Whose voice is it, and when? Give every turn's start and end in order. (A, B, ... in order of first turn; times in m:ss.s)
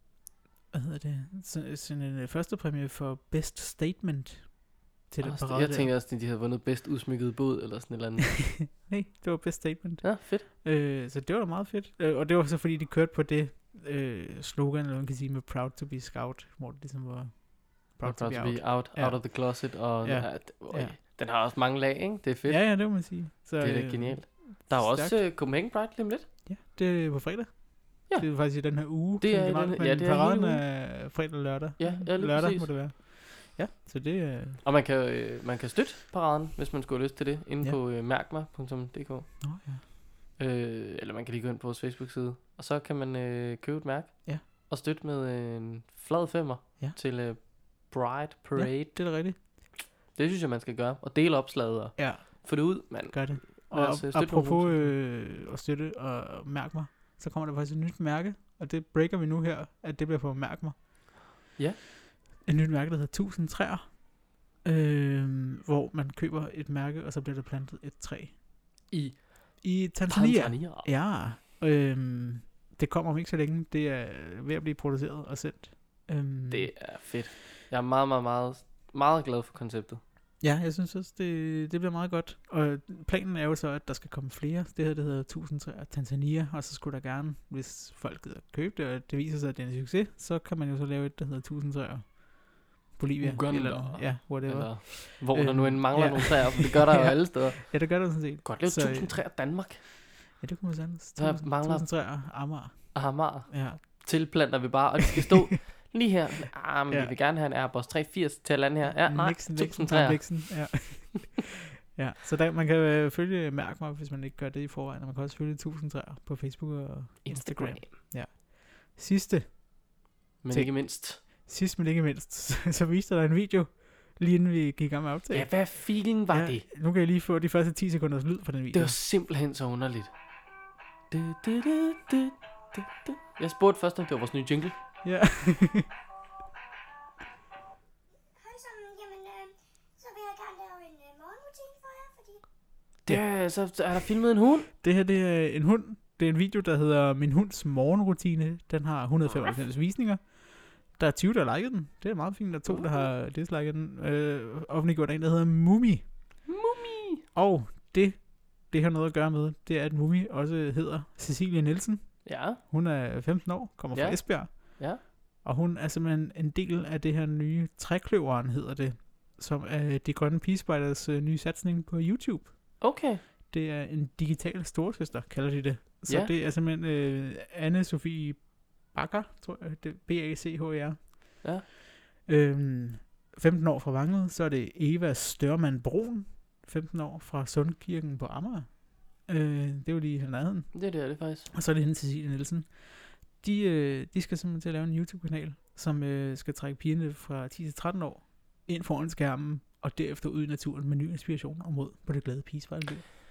0:00.7-0:05.9 A
0:05.2-0:08.6 B
0:08.4-0:21.0 A
0:10.0-0:10.4 B
0:18.0-0:23.1 B
0:22.5-0:25.2 A
0:23.6-0:26.3 B
0:26.4-0:34.6 A
0:28.1-0:30.6 B
0:31.8-0:32.7 B
0:34.6-0:39.6 B
0:39.4-0:39.8 A
0:40.4-0:49.3 B
0:48.5-0:49.4 A
0:50.1-0:55.0 B
0:52.0-1:00.8 A
1:02.4-1:08.4 A
1:08.9-1:10.9 B
1:09.6-1:16.7 A
1:16.5-1:20.0 B
1:20.4-1:39.3 A
1:33.2-1:39.8 B
1:40.4-1:43.8 A
1:41.2-1:41.9 B
1:42.9-1:50.8 B
1:46.9-1:47.1 A
1:48.9-2:00.0 A
1:57.2-1:57.9 B
2:00.4-2:01.2 B
2:00.5-2:09.0 A
2:05.3-2:06.7 B
2:08.7-2:10.1 B
2:11.1-2:14.8 B
2:15.0-2:15.9 A
2:18.4-2:22.4 C
2:23.1-2:24.7 B
2:24.8-2:36.1 A
2:32.7-2:33.0 B
2:36.4-2:37.2 B
2:37.3-2:52.9 A
2:42.2-2:42.6 B
2:43.9-2:45.0 B
2:52.8-2:53.2 B
2:53.5-3:01.6 A
2:56.1-2:56.3 B
3:02.2-3:10.9 A
3:10.7-3:11.5 B
3:11.5-3:23.0 A